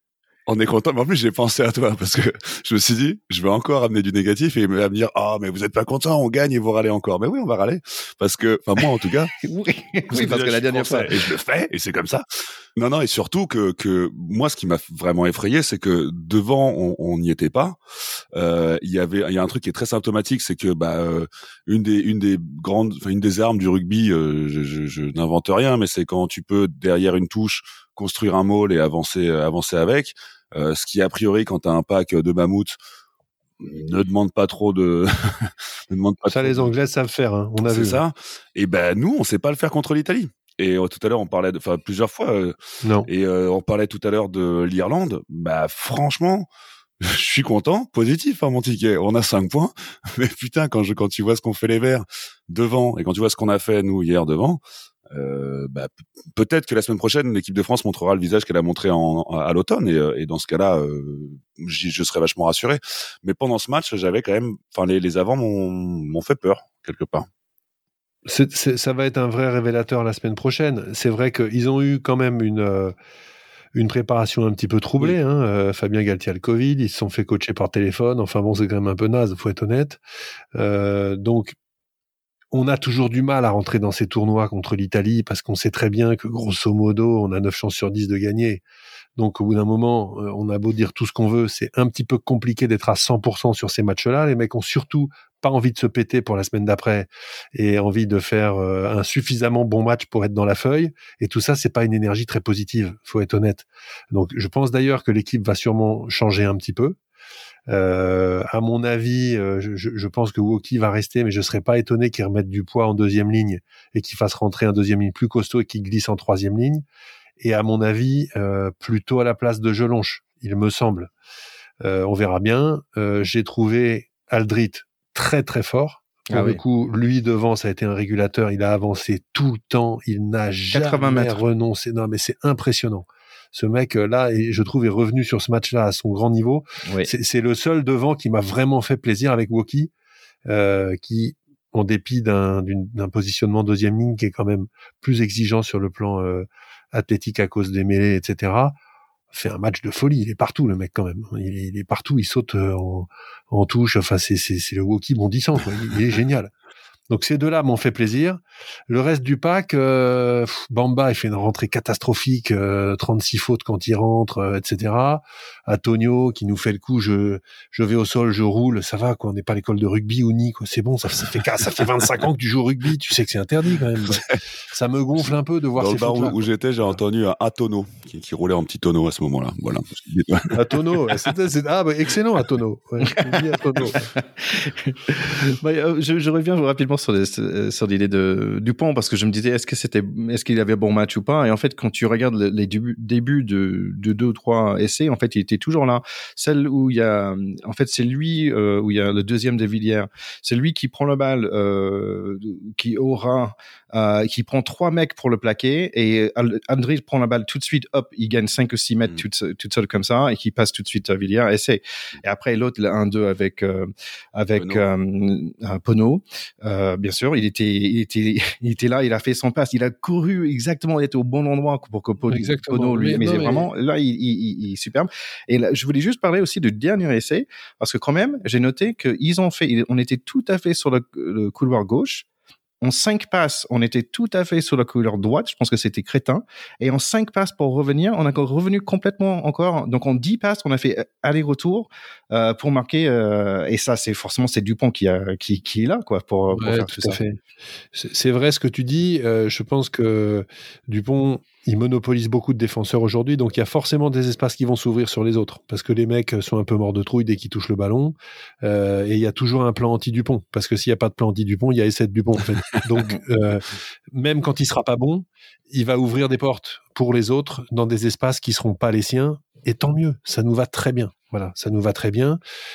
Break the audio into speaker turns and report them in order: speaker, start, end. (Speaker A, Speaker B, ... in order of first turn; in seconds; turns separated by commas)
Speaker A: 0.5-9.4, Speaker B: 9.4-11.1, Speaker A: 10.1-12.2, Speaker A: 12.8-17.8, Speaker A: 18.3-32.8, Speaker A: 33.6-36.7, Speaker C: 36.3-38.0, Speaker A: 37.6-42.6, Speaker C: 42.8-43.1, Speaker A: 43.1-46.5, Speaker A: 47.0-54.6, Speaker A: 55.1-67.3, Speaker C: 68.2-72.9, Speaker C: 73.7-80.0, Speaker C: 80.6-81.6, Speaker C: 82.5-88.6, Speaker C: 89.2-107.0, Speaker C: 107.7-116.8, Speaker C: 117.4-121.1, Speaker C: 121.8-139.9, Speaker B: 126.3-126.6, Speaker B: 130.7-131.4, Speaker C: 140.4-148.7, Speaker C: 149.3-156.5, Speaker C: 157.1-176.5, Speaker A: 175.8-180.6, Speaker C: 180.5-184.1, Speaker B: 184.2-232.2, Speaker A: 214.6-214.8, Speaker C: 222.3-223.7, Speaker B: 232.8-247.2, Speaker C: 246.5-247.3, Speaker C: 247.9-272.4